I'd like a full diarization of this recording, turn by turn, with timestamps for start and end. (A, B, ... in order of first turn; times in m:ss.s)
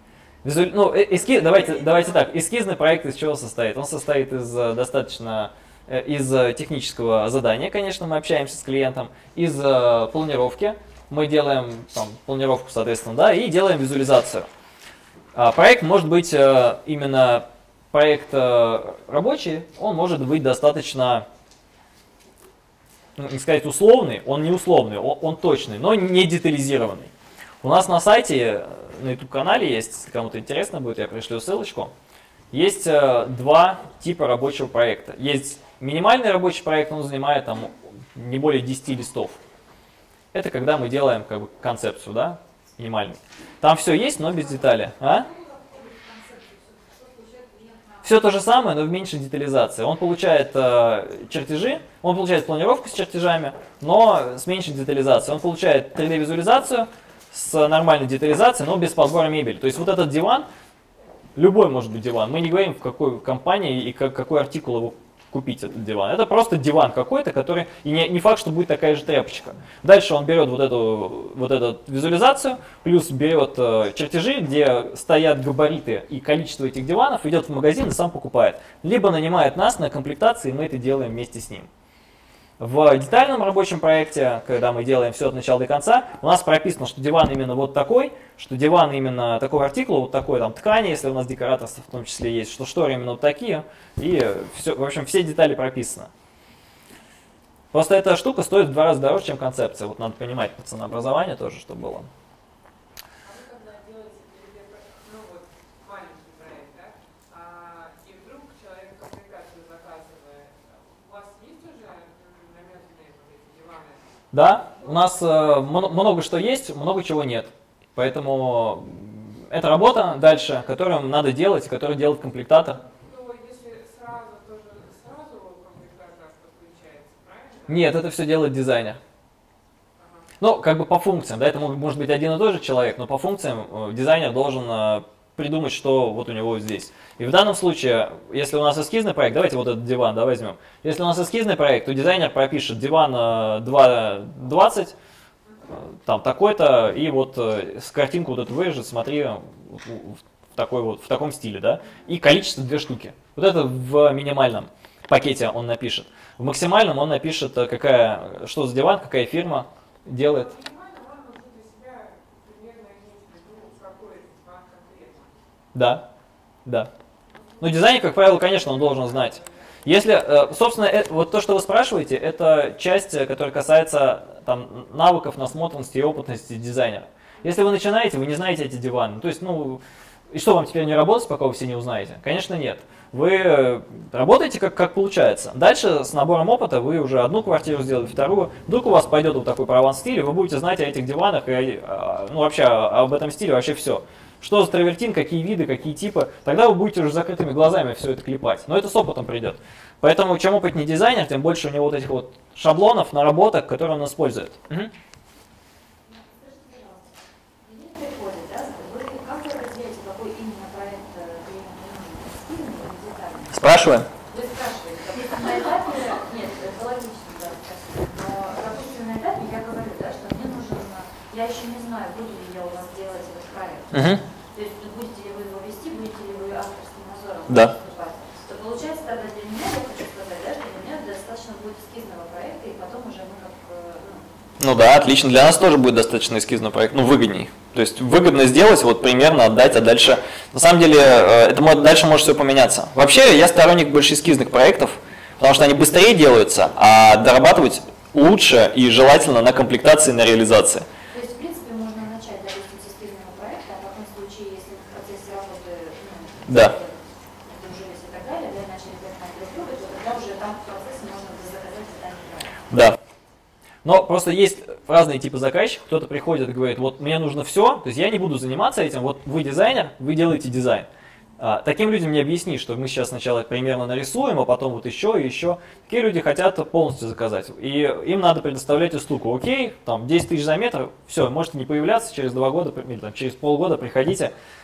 0:00.4-0:14.5 A
0:01.2-0:02.2 B
0:15.4-0:21.3 A
0:23.2-0:27.1 A
0:27.6-0:31.9 A
0:32.5-0:39.4 A
0:40.3-0:45.3 A
0:45.2-0:47.9 B
0:48.0-1:00.5 A
1:01.4-1:21.7 A
1:22.6-1:36.1 A
1:37.7-1:42.1 A
1:43.2-1:54.0 B
1:54.3-2:02.8 A
2:02.8-2:07.9 B
2:07.7-2:09.0 A
2:10.0-2:10.3 B
2:10.4-2:25.0 A
2:25.7-2:40.5 A
2:40.2-2:45.4 B
2:45.7-2:46.1 A
2:46.6-2:46.9 A
2:47.4-2:47.8 B
2:47.6-3:24.9 A
2:48.3-2:49.4 B
3:28.4-3:33.4 C
3:33.5-3:34.1 A
3:34.4-3:43.9 C
3:43.9-3:44.2 A
3:44.6-3:54.2 C
3:47.5-3:47.8 A
3:54.6-4:10.9 A
4:11.2-4:16.8 C
4:16.4-4:16.8 A
4:17.5-4:22.5 C
4:22.7-4:23.0 A
4:23.8-4:30.9 A
4:31.4-4:44.3 A